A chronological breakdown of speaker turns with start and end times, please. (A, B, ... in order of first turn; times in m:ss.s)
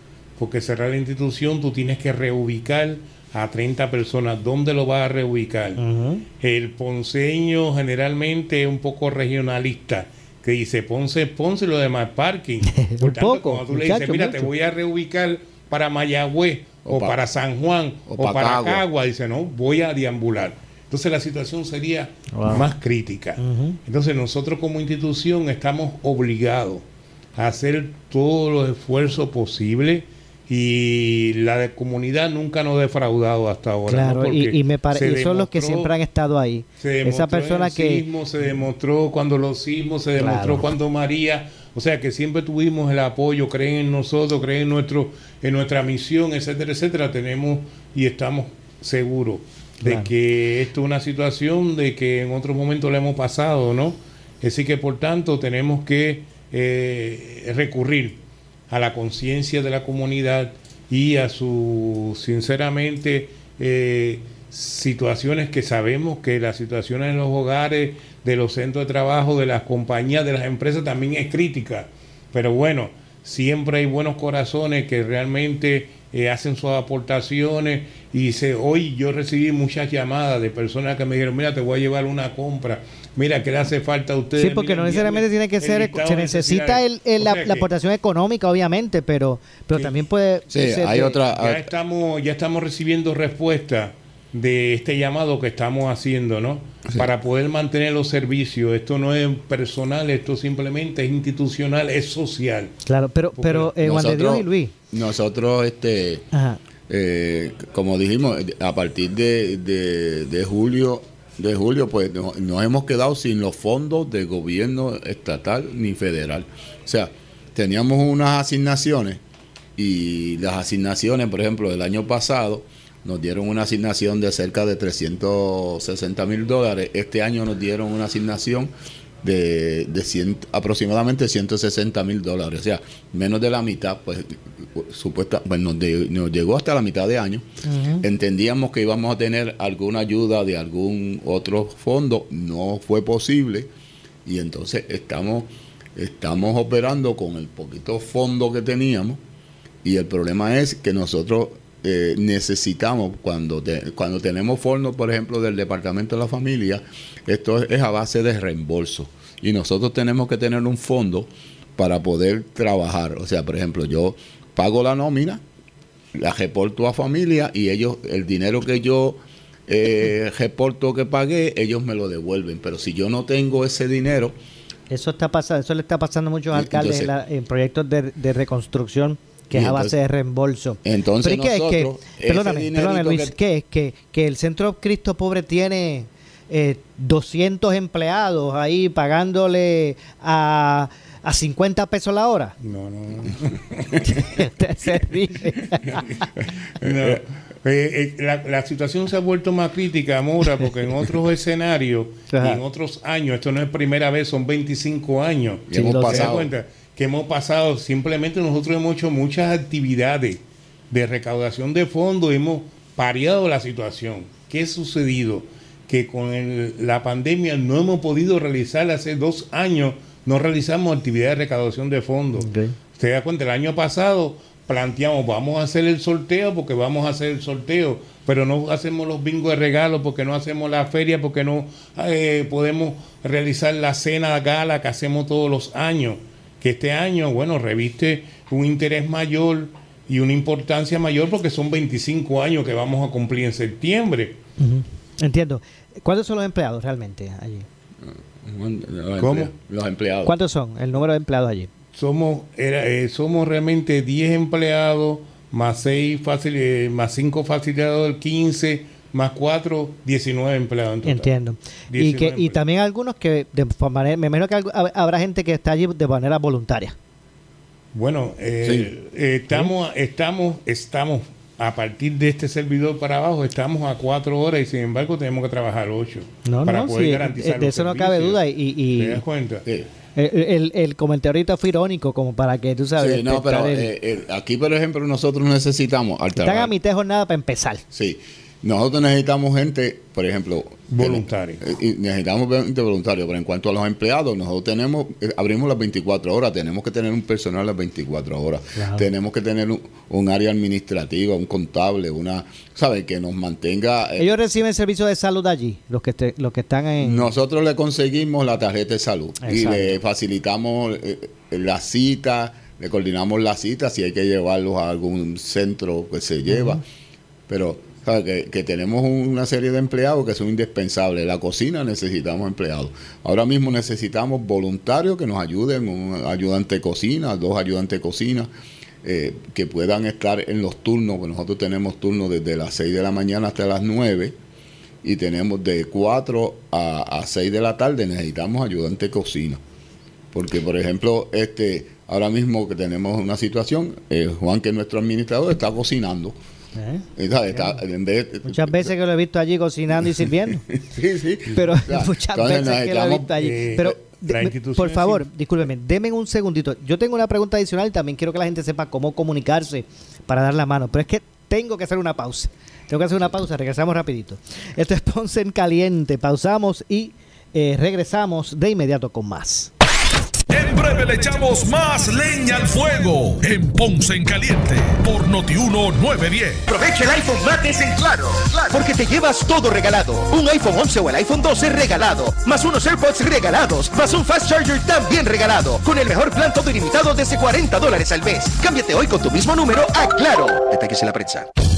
0:00.4-0:05.8 A
0:05.8-0:06.2 B
0:06.4-0:26.8 A
0:12.7-0:14.5 B
0:16.8-0:17.2 C
0:18.1-0:18.8 C
0:22.3-0:22.7 B
0:23.4-0:23.8 B
0:27.4-0:35.9 A
0:33.9-0:38.0 B
0:36.8-0:58.2 A
0:40.2-0:40.6 B
0:49.8-0:50.1 B
0:58.7-1:27.7 A
1:24.4-1:31.2 B
1:29.7-1:30.0 A
1:30.5-1:31.7 C
1:31.3-1:42.7 A
1:42.9-1:44.7 B
1:43.4-1:43.7 A
1:43.8-1:46.3 C
1:46.3-1:46.6 B
1:46.9-1:59.2 C
1:59.8-2:17.4 C
2:17.6-2:18.0 B
2:18.0-2:23.7 C
2:24.2-2:29.2 C
2:29.8-2:45.4 C
2:46.1-2:54.3 C
2:54.9-3:12.5 B
2:56.5-2:57.1 C
2:59.5-3:00.0 C
3:00.8-3:03.4 C
3:12.6-3:14.4 A
3:14.0-3:16.1 B
3:16.8-4:04.4 A
3:16.8-3:17.2 C
3:22.3-3:22.6 B
3:25.7-3:26.5 C
3:25.7-3:26.4 B
3:42.4-3:42.8 B
4:04.6-4:07.7 B
4:08.0-4:10.3 C
4:09.2-4:09.5 A
4:10.2-4:11.7 B
4:11.9-4:21.3 A
4:21.0-4:27.0 B
4:21.9-4:22.6 A
4:27.9-4:38.4 A
4:28.6-4:28.9 C
4:36.4-4:39.2 B
4:38.9-4:39.6 A
4:40.2-4:43.8 B
4:43.0-4:46.7 C
4:46.4-4:47.8 B
4:47.9-5:04.3 C
4:50.9-4:51.6 A
4:58.8-4:59.1 B
5:04.2-5:07.3 B
5:07.0-5:16.8 C
5:09.4-5:10.0 B
5:16.5-5:16.8 B
5:17.5-5:28.5 C
5:29.0-5:34.3 C
5:35.0-5:39.6 C
5:40.3-5:46.4 C
5:46.8-5:47.8 B
5:47.2-5:48.9 C
5:48.4-5:50.6 B
5:50.0-5:53.4 C
5:51.5-6:09.7 B
5:53.4-5:55.2 A
6:10.5-6:16.6 D
6:16.7-6:31.5 E